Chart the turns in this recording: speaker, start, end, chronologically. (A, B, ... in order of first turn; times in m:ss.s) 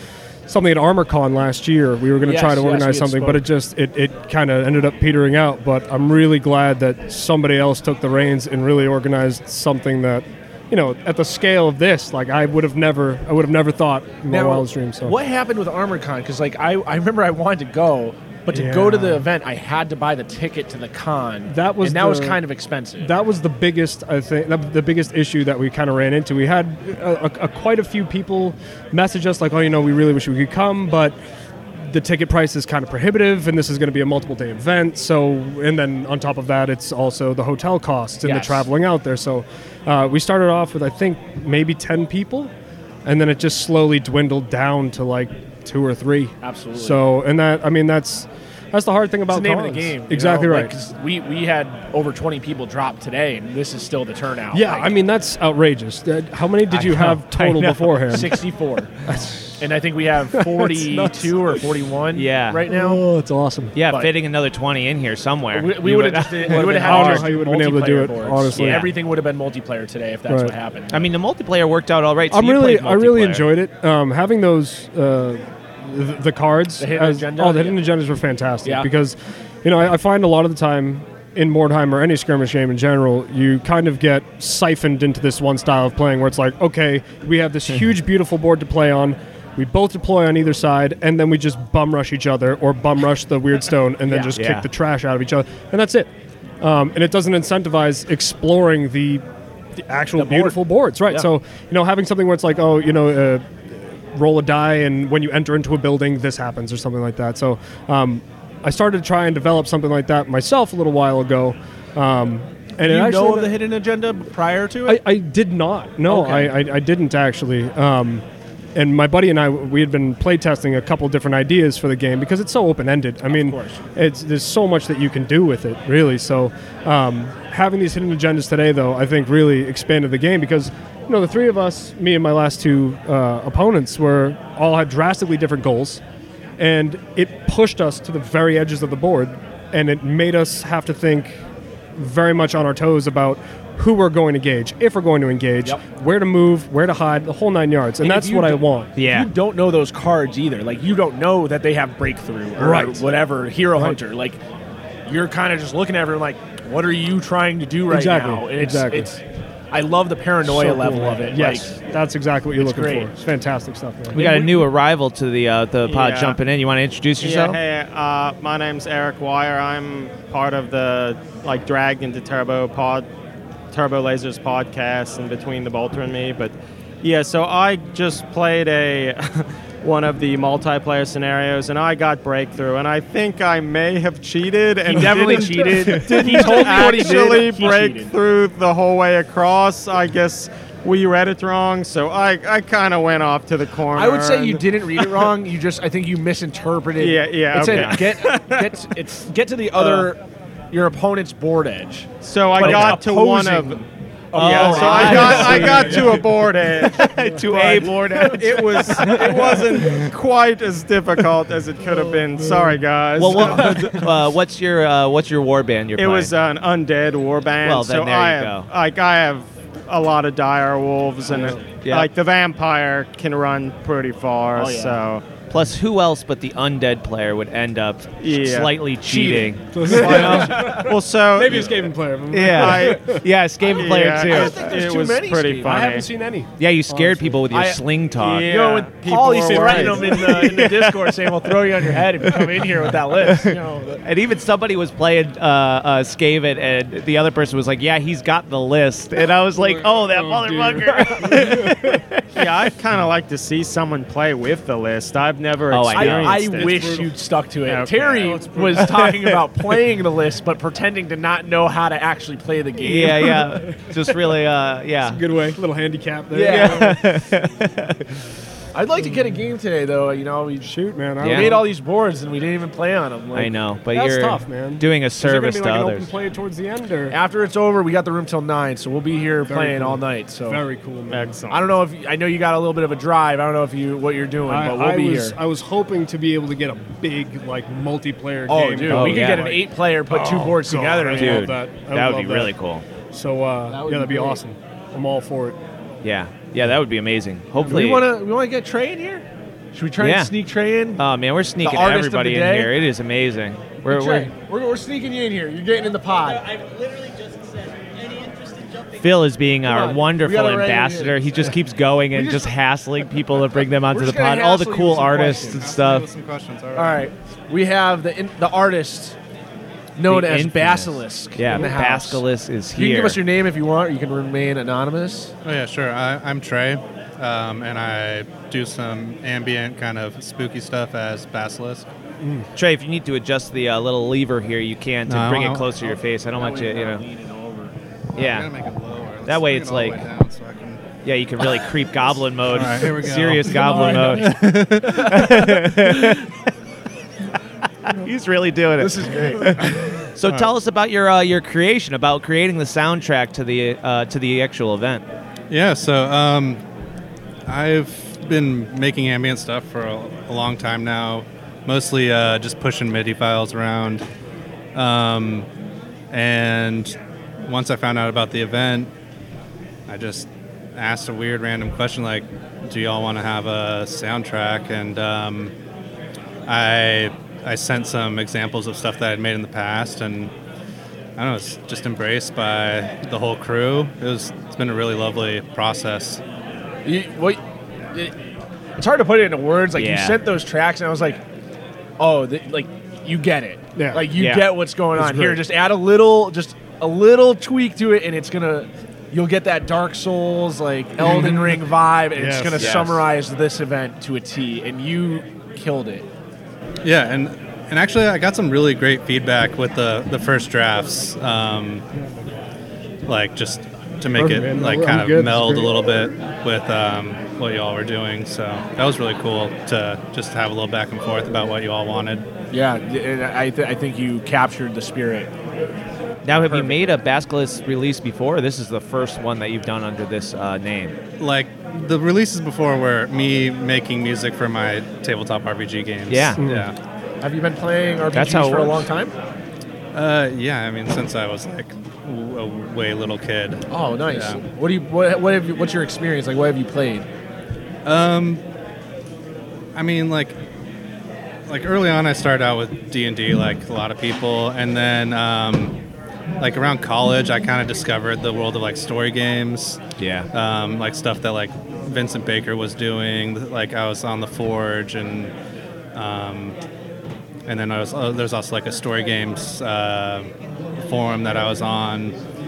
0:00.5-0:15.2 A
0:02.2-0:03.4 B
0:14.3-0:23.1 B
0:18.5-0:19.3 A
0:21.4-0:22.4 A
0:23.0-0:31.2 A
0:31.9-0:42.5 A
0:38.2-0:38.6 B
0:43.0-0:50.7 A
0:46.4-0:47.0 B
0:49.3-0:54.9 B
0:54.5-0:58.4 A
0:56.7-0:58.0 C
0:58.1-0:58.9 B
0:59.1-0:59.7 A
0:59.6-1:03.0 B
1:00.3-1:01.6 A
1:02.1-1:02.6 C
1:02.7-1:03.8 A
1:03.8-1:07.3 C
1:03.8-1:04.1 B
1:05.5-1:11.0 B
1:06.5-1:08.9 A
1:08.6-1:08.9 C
1:10.3-1:10.5 A
1:10.9-1:13.5 C
1:12.3-1:36.1 A
1:16.8-1:17.8 B
1:18.6-1:18.9 B
1:34.0-1:34.4 B
1:34.4-1:34.7 C
1:36.6-1:39.2 A
1:39.8-1:53.6 A
1:40.2-1:41.3 B
1:52.8-1:55.1 B
1:54.8-1:58.2 A
1:56.1-1:56.6 B
1:58.7-2:16.0 A
2:03.3-2:03.8 B
2:16.6-2:21.4 A
2:22.0-2:28.9 A
2:28.0-2:34.4 B
2:29.0-2:29.3 C
2:32.6-2:33.2 A
2:33.7-2:34.0 A
2:35.1-2:39.2 B
2:37.9-2:39.1 A
2:39.7-2:41.7 B
2:40.4-2:44.3 A
2:42.5-2:43.1 B
2:44.1-2:44.7 B
2:44.1-2:47.6 C
2:45.8-2:46.4 D
2:47.2-2:53.0 D
2:53.7-3:15.2 D
3:04.8-3:08.1 B
3:13.9-3:20.2 B
3:17.0-3:18.8 D
3:17.6-3:18.0 C
3:19.8-3:20.0 D
3:20.7-3:26.3 B
3:22.2-3:23.8 D
3:24.3-3:27.0 D
3:24.4-3:26.0 C
3:26.9-3:29.2 C
3:27.5-3:30.0 B
3:28.3-3:33.9 D
3:32.4-3:32.8 A
3:33.2-3:36.3 C
3:36.0-3:45.2 D
3:37.6-3:38.7 C
3:41.8-3:42.1 C
3:44.6-3:45.0 B
3:45.5-3:50.6 C
3:48.2-3:48.8 D
3:49.0-3:50.9 B
3:49.7-3:53.2 A
3:50.7-3:51.8 D
3:52.3-3:54.6 C
3:52.5-3:53.0 D
3:53.6-3:56.0 D
3:53.6-3:56.0 B
3:55.7-3:57.5 A
3:56.6-3:58.5 C
3:57.5-3:57.8 B
3:58.2-4:00.7 D
3:58.4-4:04.0 B
3:59.5-4:00.2 A
4:00.2-4:01.1 C
4:01.9-4:02.9 A
4:04.0-4:12.2 C
4:09.5-4:12.0 A
4:12.3-4:16.8 D
4:15.7-4:16.7 C
4:15.9-4:23.5 B
4:16.6-4:17.1 A
4:17.6-4:18.3 D
4:18.2-4:19.0 A
4:18.8-4:19.4 C
4:22.8-4:25.2 C
4:25.0-4:27.2 A
4:26.3-4:27.0 B
4:26.4-4:28.0 C
4:28.7-4:33.5 B
4:30.6-4:31.7 A
4:31.2-4:31.5 C
4:33.3-4:36.1 C
4:33.9-4:37.2 A
4:37.1-4:40.6 B
4:39.4-4:41.2 A
4:41.1-4:41.7 D
4:41.5-4:45.4 B
4:44.4-4:52.5 A
4:48.5-4:51.5 B
4:48.9-4:49.5 C
4:51.1-4:52.8 C
4:53.1-4:55.6 A
4:53.6-4:54.4 B
4:56.0-4:58.1 C
4:57.6-5:01.0 B
5:00.0-5:00.3 C
5:01.0-5:04.3 C
5:01.6-5:02.7 B
5:03.8-5:06.5 B
5:09.0-5:16.0 C
5:09.6-5:11.5 B
5:12.1-5:12.5 B
5:13.5-5:15.7 B
5:15.4-5:17.1 E
5:16.7-5:19.1 B
5:20.0-5:22.2 B
5:20.1-5:23.2 C
5:22.7-5:25.3 B
5:25.4-5:31.9 E
5:32.2-5:32.4 A
5:32.6-5:37.0 C
5:35.1-5:35.7 E
5:35.8-5:37.7 B
5:38.2-5:40.8 E
5:38.2-5:38.5 C
5:39.3-5:40.0 C
5:41.0-5:44.4 C
5:42.4-5:45.6 E
5:43.6-5:44.3 B
5:44.9-5:46.2 C
5:47.8-5:55.0 C
5:48.8-5:49.7 B
5:55.5-5:56.6 E
5:57.5-6:04.0 E
6:04.7-6:05.5 E
6:06.1-6:08.9 E
6:09.9-6:15.5 E
6:16.5-6:20.3 E
6:21.2-6:26.2 E
6:26.8-6:27.4 B
6:28.8-6:31.2 B
6:29.8-6:30.2 C
6:32.0-6:46.0 B
6:33.8-6:34.1 A
6:34.1-6:34.5 C
6:34.9-6:35.4 A
6:41.0-6:42.7 A
6:42.6-6:43.0 C
6:46.8-6:51.8 E
6:53.0-7:02.2 E
6:54.1-6:55.7 A
7:02.5-7:05.3 B
7:06.2-7:11.0 C
7:06.4-7:06.8 B
7:11.2-7:16.8 E
7:16.1-7:16.4 C
7:16.4-7:16.7 A
7:17.2-7:19.1 B
7:18.1-7:18.8 C
7:19.9-7:24.4 E
7:23.7-7:27.0 B
7:27.8-7:28.4 E
7:29.7-7:30.4 E
7:31.5-7:35.8 E
7:36.4-7:39.8 E
7:40.0-7:40.3 C
7:40.3-7:45.3 E
7:45.9-7:46.6 E
7:47.5-7:50.3 E
7:50.8-7:52.2 E